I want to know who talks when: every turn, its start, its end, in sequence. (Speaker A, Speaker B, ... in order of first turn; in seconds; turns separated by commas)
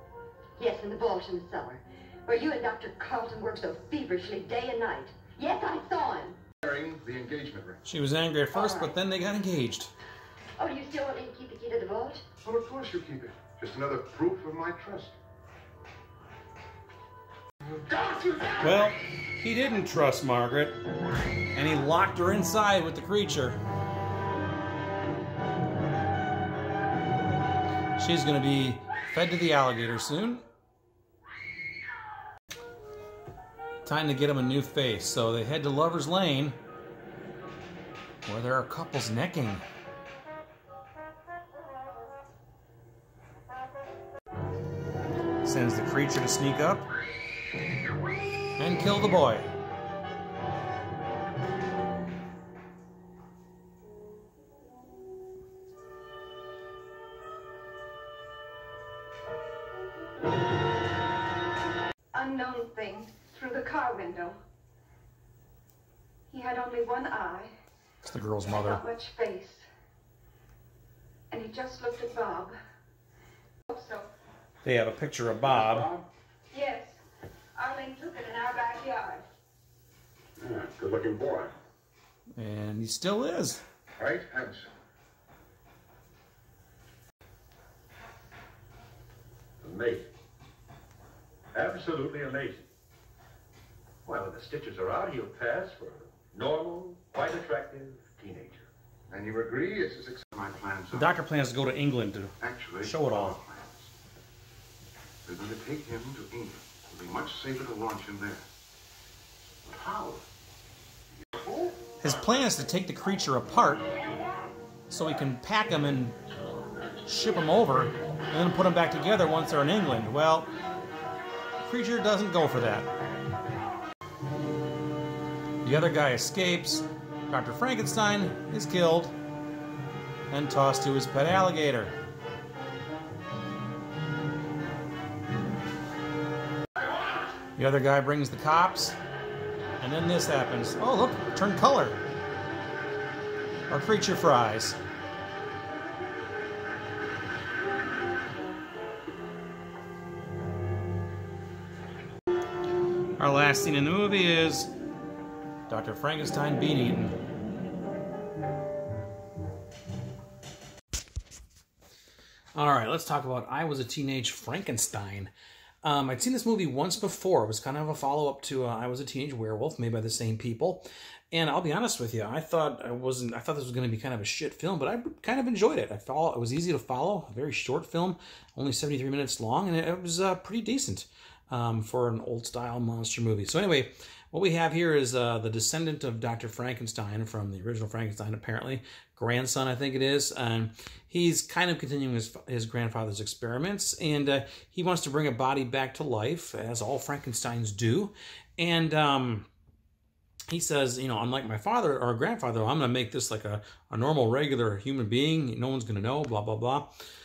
Speaker A: 0.6-6.4, Speaker B: 6.6-7.8, Speaker C: 7.8-9.9, Speaker A: 8.5-9.0, Speaker A: 10.6-12.2, Speaker B: 12.4-15.2, Speaker B: 17.9-18.6, Speaker C: 18.6-20.8, Speaker C: 21.5-23.6, Speaker C: 28.0-30.4, Speaker C: 33.9-36.6, Speaker C: 38.3-39.6, Speaker C: 45.4-46.9, Speaker C: 48.6-49.5, Speaker D: 62.1-64.4, Speaker D: 66.3-67.5, Speaker C: 68.0-68.8, Speaker D: 68.5-69.7, Speaker D: 71.3-72.5, Speaker D: 73.7-74.1, Speaker C: 74.6-75.9, Speaker B: 75.5-76.1, Speaker D: 76.5-77.0, Speaker D: 77.5-79.3, Speaker B: 80.4-81.4, Speaker C: 82.4-83.6, Speaker B: 84.0-84.7, Speaker E: 89.6-90.1, Speaker E: 91.5-92.7, Speaker E: 94.1-98.7, Speaker B: 99.1-101.2, Speaker C: 100.9-103.4, Speaker B: 102.4-103.9, Speaker B: 105.3-108.5, Speaker B: 109.7-110.2, Speaker B: 111.4-111.8, Speaker C: 112.0-113.9, Speaker C: 114.9-116.2, Speaker C: 117.0-120.5, Speaker C: 121.6-122.9, Speaker C: 125.6-129.1, Speaker C: 130.3-131.9, Speaker C: 137.6-139.0, Speaker C: 139.8-142.0, Speaker C: 143.7-144.8, Speaker C: 153.2-154.7, Speaker C: 155.7-157.2, Speaker C: 162.6-165.3, Speaker C: 165.8-199.5, Speaker C: 200.5-206.9